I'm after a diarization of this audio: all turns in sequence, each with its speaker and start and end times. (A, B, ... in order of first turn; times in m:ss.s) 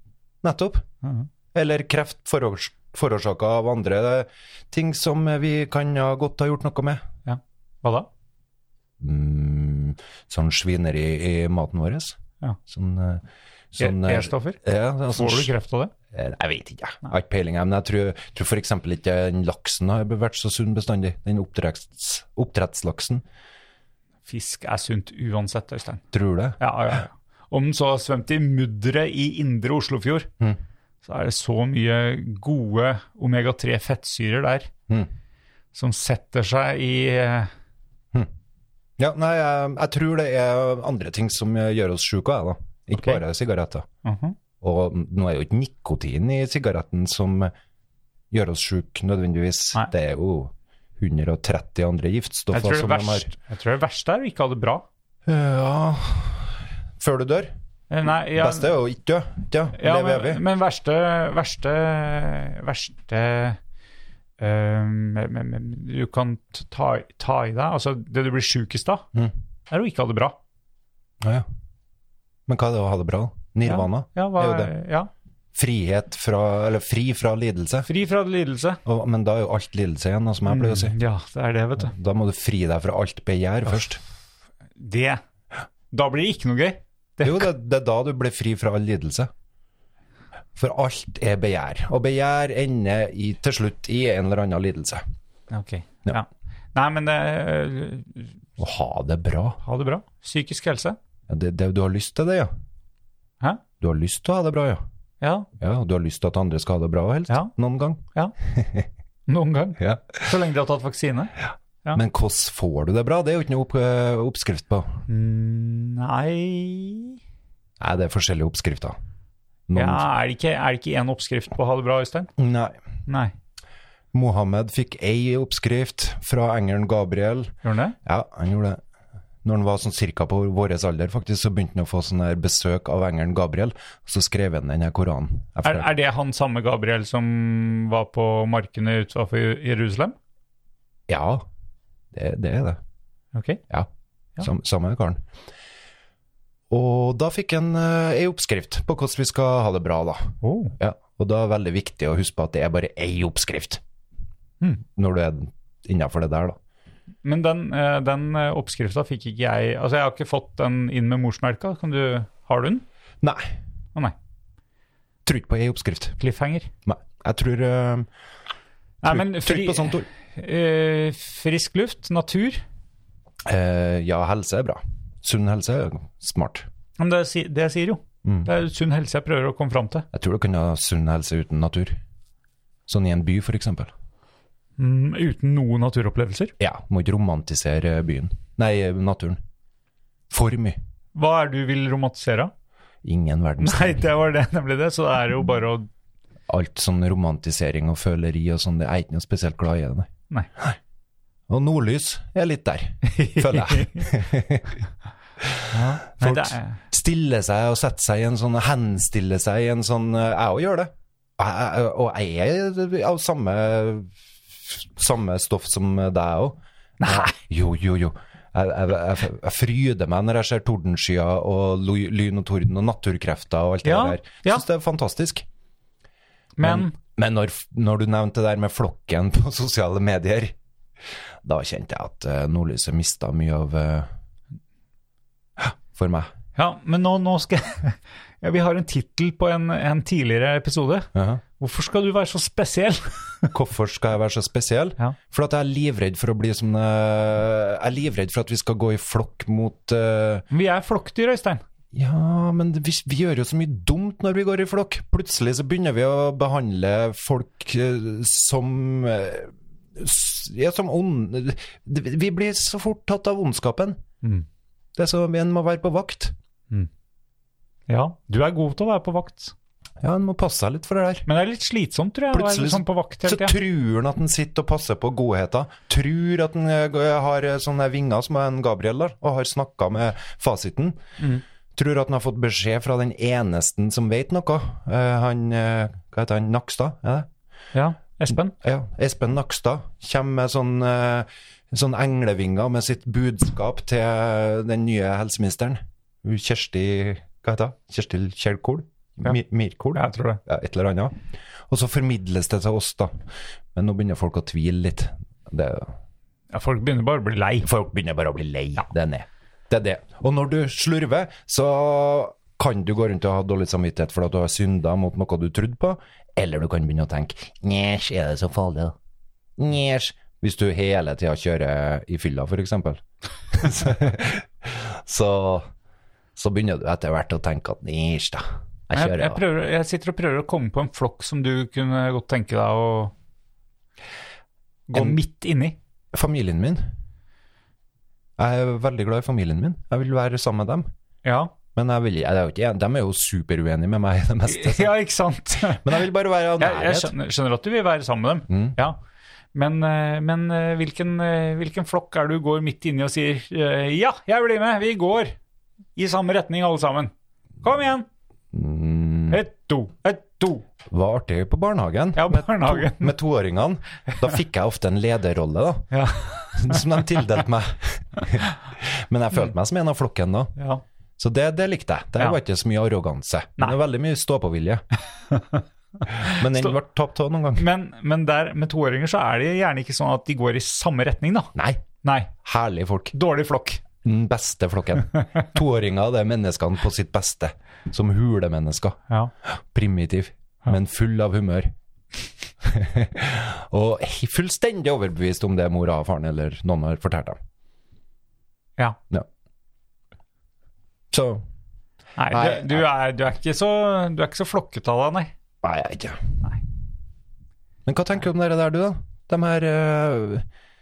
0:00.4-0:00.8 A
0:01.0-0:01.3 B
0:01.5-0:07.0 A
0:07.2-0:08.1 B
0:09.0-0:15.5 A
0:13.8-0:14.6 B
0:15.1-0:15.9 B
0:16.1-0:23.2 A
0:24.2-0:26.0 B
0:26.1-0:26.9 A
0:26.6-0:30.3 B
0:31.0-0:34.7 B
0:35.7-0:37.5 B
0:39.0-0:43.8 A
0:44.0-0:44.4 B
0:44.6-0:47.5 A
0:48.3-0:53.3 A
0:52.5-0:54.8 B
0:55.2-0:57.5 A
0:57.9-0:58.7 B
0:58.3-1:00.4 A
0:59.8-1:03.6 B
1:04.4-1:09.0 B
1:09.7-1:10.4 B
1:11.2-1:11.4 A
1:12.5-1:14.7 A
1:13.6-1:15.1 B
1:15.5-1:17.9 A
1:17.8-1:18.8 B
1:18.8-1:21.0 A
1:20.4-1:21.9 B
1:21.8-1:24.0 A
1:24.8-1:25.2 B
1:25.9-1:27.5 B
1:27.2-1:29.3 A
1:30.6-1:35.0 A
1:35.5-1:38.3 B
1:38.6-1:39.6 A
1:39.6-1:41.0 B
1:41.3-1:42.5 A
1:43.8-1:44.8 A
1:45.2-1:45.5 B
1:45.6-1:48.9 A
1:49.3-1:51.3 B
1:49.8-1:50.3 A
1:51.9-1:55.0 A
1:55.1-1:57.2 B
1:57.8-1:59.0 A
1:59.7-2:00.0 A
1:59.7-2:02.3 B
2:02.4-2:02.8 A
2:03.1-2:03.3 B
2:04.1-2:08.8 A
2:07.6-2:08.0 B
2:09.4-2:15.9 A
2:15.6-2:20.2 B
2:21.1-2:21.4 A
2:22.1-2:22.8 A
2:23.3-2:23.6 B
2:23.7-2:25.2 A
2:26.7-2:33.8 A
2:30.4-2:30.7 B
2:34.9-2:36.6 A
2:37.2-2:42.8 B
2:43.2-2:43.5 A
2:45.2-2:46.2 A
2:46.2-2:46.7 B
2:46.8-2:48.1 A
2:49.0-2:52.6 B
2:49.0-2:50.1 A
2:53.4-2:56.7 A
2:57.0-3:00.0 B
2:58.2-2:58.5 A
3:00.1-3:02.0 A
3:02.9-3:03.9 A
3:04.8-3:06.5 B
3:06.6-3:09.4 A
3:10.3-3:10.8 A
3:11.1-3:12.5 B
3:13.0-3:14.0 A
3:13.6-3:15.9 B
3:16.5-3:20.8 A
3:21.5-3:24.8 A
3:23.0-3:24.1 B
3:25.4-3:45.4 A
3:25.7-3:26.8 B
3:37.0-3:37.4 B
3:43.8-3:44.6 B
3:46.6-3:46.9 B
3:46.6-3:50.5 A
3:51.4-3:54.1 A
3:55.6-3:56.3 A
3:56.6-4:03.5 B
4:01.1-4:01.4 A
4:03.5-4:10.4 A
4:10.5-4:11.6 B
4:11.9-4:24.0 A
4:25.0-4:26.3 A
4:27.9-4:29.5 B
4:30.0-4:31.3 A
4:31.2-4:33.6 B
4:32.3-4:41.0 A
4:41.7-4:47.3 A
4:47.7-4:48.5 B
4:48.5-5:03.2 A
4:59.9-5:00.4 B
5:03.7-5:05.9 A
5:06.5-5:07.7 B
5:07.6-5:19.0 A
5:19.6-5:25.7 A
5:26.4-5:29.4 A
5:28.9-5:33.1 B
5:34.9-5:35.8 B
5:36.1-5:36.9 A
5:38.4-5:40.9 A
5:41.2-5:41.5 B
5:41.7-5:44.9 A
5:44.5-5:46.0 B
5:45.6-5:47.2 A
5:46.6-5:49.0 B
5:48.5-5:48.8 A
5:49.5-5:55.4 B
5:56.0-5:57.1 B
5:57.6-5:58.0 B
5:58.5-5:59.4 A
5:59.3-6:00.6 B
6:00.9-6:06.0 A
6:02.2-6:03.1 B
6:05.9-6:06.8 B
6:06.5-6:10.5 A
6:10.6-6:10.8 B
6:11.2-6:14.8 A
6:15.3-6:15.6 B
6:16.1-6:16.7 B
6:16.2-6:17.6 A
6:17.6-6:22.3 B
6:21.5-6:21.8 A
6:22.4-6:23.1 A
6:23.1-6:23.8 B
6:24.0-6:31.7 A
6:32.6-6:37.4 A
6:41.1-6:41.4 A
6:42.2-6:45.3 B
6:42.3-6:42.9 A
6:45.6-6:46.3 A
6:47.8-6:50.4 A